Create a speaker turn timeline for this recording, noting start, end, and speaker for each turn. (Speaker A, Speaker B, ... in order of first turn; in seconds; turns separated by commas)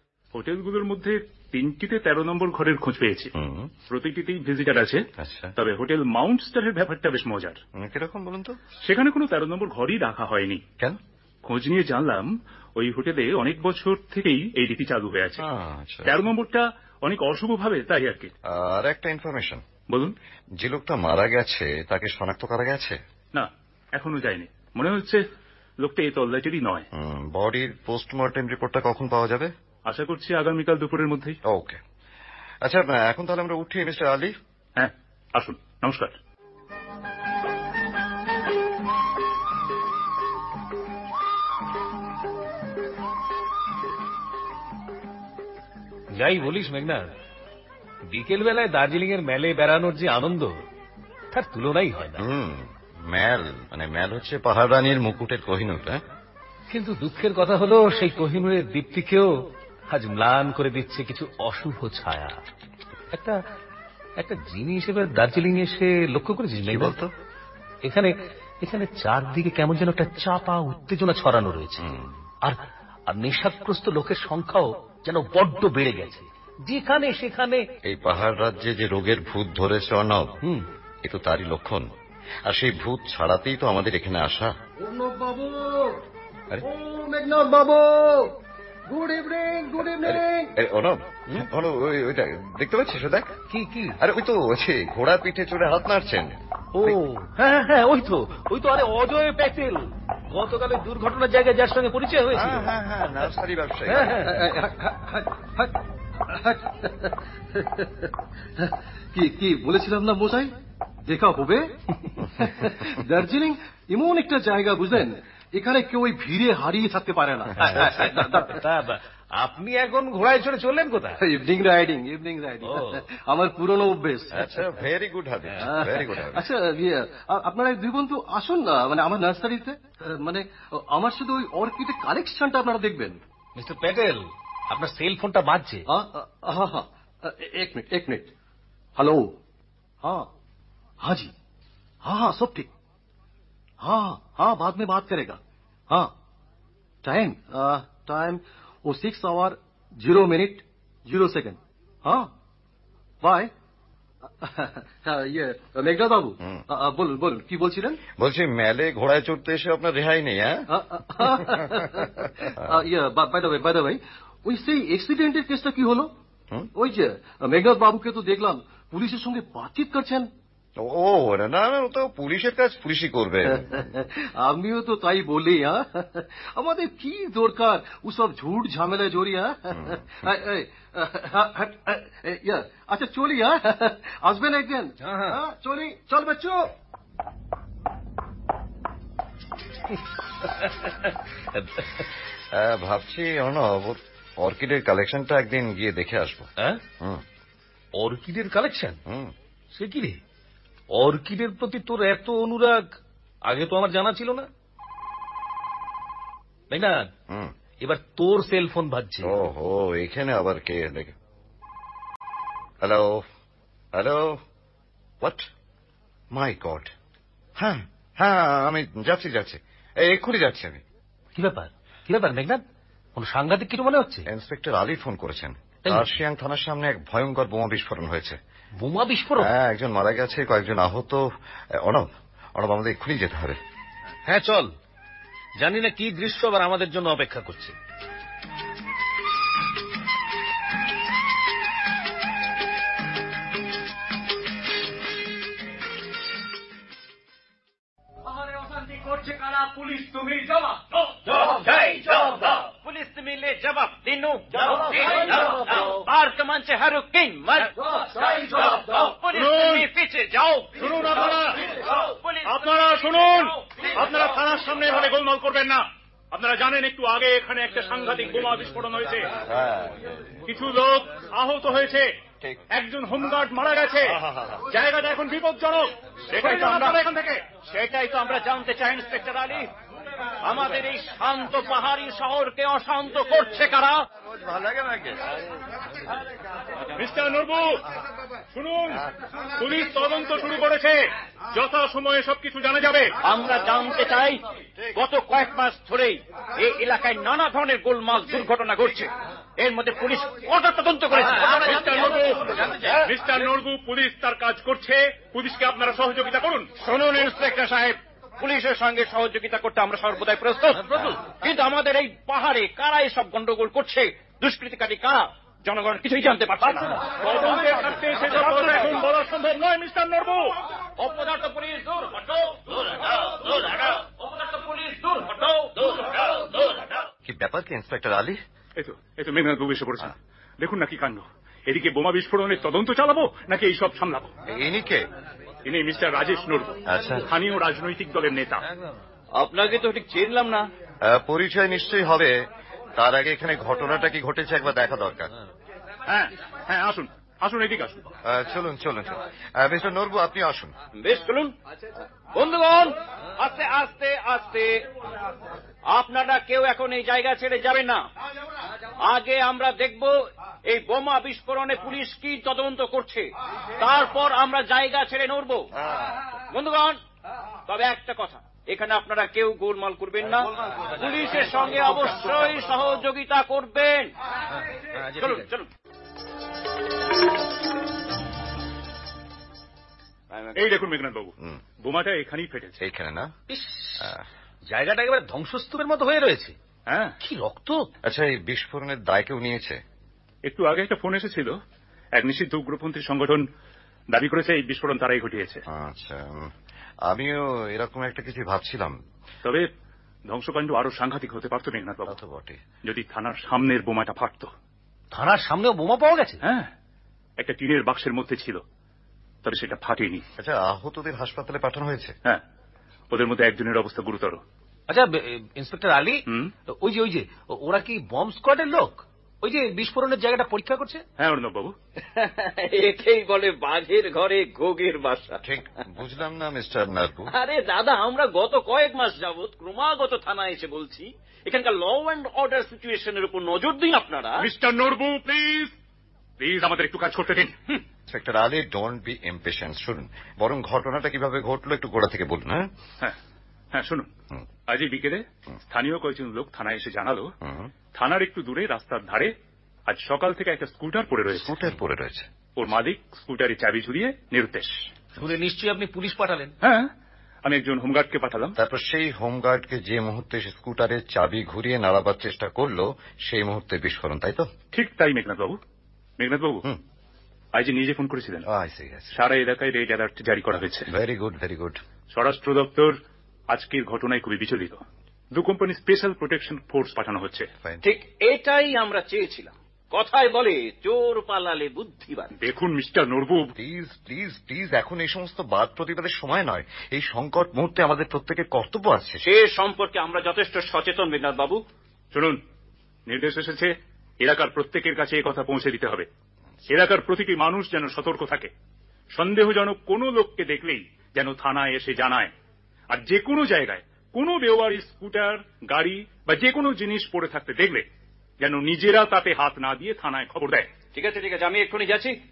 Speaker A: 0.3-3.3, Speaker B: 3.3-3.7, Speaker A: 3.9-5.0, Speaker B: 5.2-5.5, Speaker A: 5.5-7.6, Speaker B: 7.7-8.6, Speaker A: 8.8-10.6, Speaker A: 11.4-15.4, Speaker B: 15.4-16.1, Speaker A: 16.0-18.3, Speaker B: 18.5-19.6, Speaker B: 20.6-23.0, Speaker A: 23.3-25.2, Speaker A: 25.8-26.9, Speaker B: 26.9-29.5, Speaker A: 29.9-31.4, Speaker B: 31.4-31.8, Speaker B: 32.6-34.3, Speaker A: 34.8-36.1, Speaker C: 46.1-47.1, Speaker C: 48.1-50.5, Speaker C: 51.3-52.2, Speaker B: 52.2-56.0, Speaker C: 56.7-59.3, Speaker C: 59.9-62.4, Speaker C: 63.1-63.4, Speaker C: 64.2-67.0, Speaker B: 66.6-67.1, Speaker C: 67.8-71.8, Speaker B: 71.8-72.2, Speaker C: 72.4-77.6, Speaker B: 77.8-80.3, Speaker B: 81.0-81.9, Speaker B: 82.4-84.5, Speaker D: 84.8-86.0, Speaker D: 86.6-88.3, Speaker D: 88.9-90.5, Speaker B: 90.0-93.4, Speaker C: 93.5-94.0, Speaker B: 94.0-96.9, Speaker C: 96.7-102.7, Speaker B: 102.3-104.2, Speaker C: 103.9-104.4, Speaker D: 104.2-110.5, Speaker D: 111.0-111.7, Speaker D: 112.2-118.6, Speaker C: 117.6-121.2, Speaker D: 121.2-124.5, Speaker C: 122.6-123.0, Speaker B: 124.3-126.5, Speaker D: 125.6-133.2, Speaker C: 133.6-135.8, Speaker D: 135.9-138.3, Speaker D: 138.9-139.3, Speaker D: 140.0-140.3, Speaker D: 141.0-141.3, Speaker D: 142.0-142.7, Speaker D: 143.8-146.1, Speaker D: 147.0-152.3, Speaker D: 153.2-153.5, Speaker D: 154.4-158.0, Speaker B: 158.2-160.7, Speaker D: 160.7-166.1, Speaker B: 161.2-162.7, Speaker D: 166.8-170.3, Speaker B: 170.8-173.9, Speaker D: 173.5-186.7, Speaker B: 179.8-180.0, Speaker C: 185.0-185.4, Speaker C: 189.9-192.0, Speaker B: 192.5-197.2, Speaker C: 197.9-199.0, Speaker B: 199.1-199.3, Speaker C: 199.7-200.2, Speaker C: 200.9-202.9, Speaker C: 203.4-204.5, Speaker C: 206.7-207.0, Speaker B: 207.3-207.5, Speaker C: 207.8-209.4, Speaker B: 209.2-211.1, Speaker B: 212.8-213.2, Speaker B: 213.9-214.4, Speaker B: 215.2-215.4, Speaker B: 216.3-216.9, Speaker B: 217.6-220.8, Speaker C: 221.3-222.6, Speaker C: 223.2-224.3, Speaker B: 224.3-228.4, Speaker C: 225.8-226.1, Speaker C: 228.8-229.5, Speaker B: 229.4-231.2, Speaker B: 231.8-233.6, Speaker C: 234.3-234.7, Speaker C: 235.6-237.7, Speaker E: 248.3-260.9, Speaker A: 259.3-259.9, Speaker A: 260.8-261.7, Speaker E: 261.6-263.6, Speaker A: 262.4-269.3, Speaker B: 269.4-270.4, Speaker A: 270.5-272.1, Speaker A: 272.7-274.2, Speaker B: 274.0-274.7, Speaker A: 274.7-277.4, Speaker E: 276.3-277.0, Speaker E: 277.6-279.7, Speaker E: 280.4-284.0, Speaker B: 284.2-285.4, Speaker A: 286.9-287.8, Speaker A: 288.5-293.1, Speaker E: 293.2-294.4, Speaker E: 294.9-302.6, Speaker C: 301.1-303.1, Speaker A: 301.6-302.2, Speaker A: 302.9-306.7, Speaker E: 306.8-319.0, Speaker C: 310.7-311.2, Speaker A: 316.6-320.5, Speaker E: 321.0-326.9, Speaker B: 327.2-328.4, Speaker A: 328.8-334.3, Speaker B: 334.5-335.1, Speaker A: 335.6-338.6, Speaker B: 336.9-337.3, Speaker E: 339.4-340.7, Speaker B: 341.0-342.4, Speaker B: 342.9-345.3, Speaker A: 346.1-348.1, Speaker B: 348.2-350.7, Speaker E: 351.0-351.5, Speaker E: 352.3-354.8, Speaker E: 355.9-358.0, Speaker E: 359.1-360.1, Speaker E: 360.7-365.7, Speaker B: 365.8-366.2, Speaker E: 366.5-367.0, Speaker E: 367.7-374.1, Speaker C: 371.3-371.8, Speaker C: 374.8-375.5, Speaker E: 375.2-375.7, Speaker A: 380.5-382.8, Speaker B: 382.8-383.3, Speaker C: 383.5-384.1, Speaker B: 384.0-384.2, Speaker C: 384.7-386.6, Speaker A: 386.9-387.1, Speaker C: 387.2-387.8, Speaker B: 388.0-389.8, Speaker A: 390.4-391.6, Speaker A: 392.1-393.5, Speaker A: 394.1-395.6, Speaker B: 395.7-396.5, Speaker B: 397.0-399.0, Speaker A: 399.4-399.7, Speaker A: 400.3-402.2, Speaker B: 402.1-402.6, Speaker A: 402.8-404.5, Speaker C: 405.1-406.4, Speaker A: 406.4-406.7, Speaker A: 407.4-408.6, Speaker A: 409.4-410.2, Speaker B: 410.4-412.1, Speaker A: 413.1-414.4, Speaker C: 414.9-421.0, Speaker A: 416.3-416.5, Speaker A: 421.2-421.7, Speaker E: 422.1-425.4, Speaker B: 425.4-427.3, Speaker E: 427.3-434.5, Speaker A: 434.4-435.7, Speaker A: 436.4-437.5, Speaker B: 438.1-442.7, Speaker A: 443.7-444.1, Speaker A: 444.7-447.3, Speaker B: 447.4-447.7, Speaker A: 447.9-449.3, Speaker A: 449.9-451.5, Speaker B: 451.3-452.3, Speaker A: 452.6-454.8, Speaker C: 455.2-456.5, Speaker A: 456.6-456.9, Speaker A: 457.4-458.6, Speaker B: 458.6-464.5, Speaker A: 464.7-465.6, Speaker A: 466.2-466.6, Speaker A: 467.5-468.4, Speaker B: 468.4-469.2, Speaker A: 469.1-470.9, Speaker B: 470.9-471.8, Speaker A: 472.1-473.0, Speaker A: 473.5-474.8, Speaker A: 475.3-477.5, Speaker B: 477.6-477.9, Speaker E: 477.8-482.3, Speaker A: 482.4-483.5, Speaker B: 483.6-489.2, Speaker E: 489.2-491.6, Speaker A: 492.1-492.4, Speaker A: 493.1-496.1, Speaker A: 496.7-498.5, Speaker A: 499.1-502.3, Speaker A: 502.9-507.8, Speaker A: 508.4-510.7, Speaker E: 510.9-512.2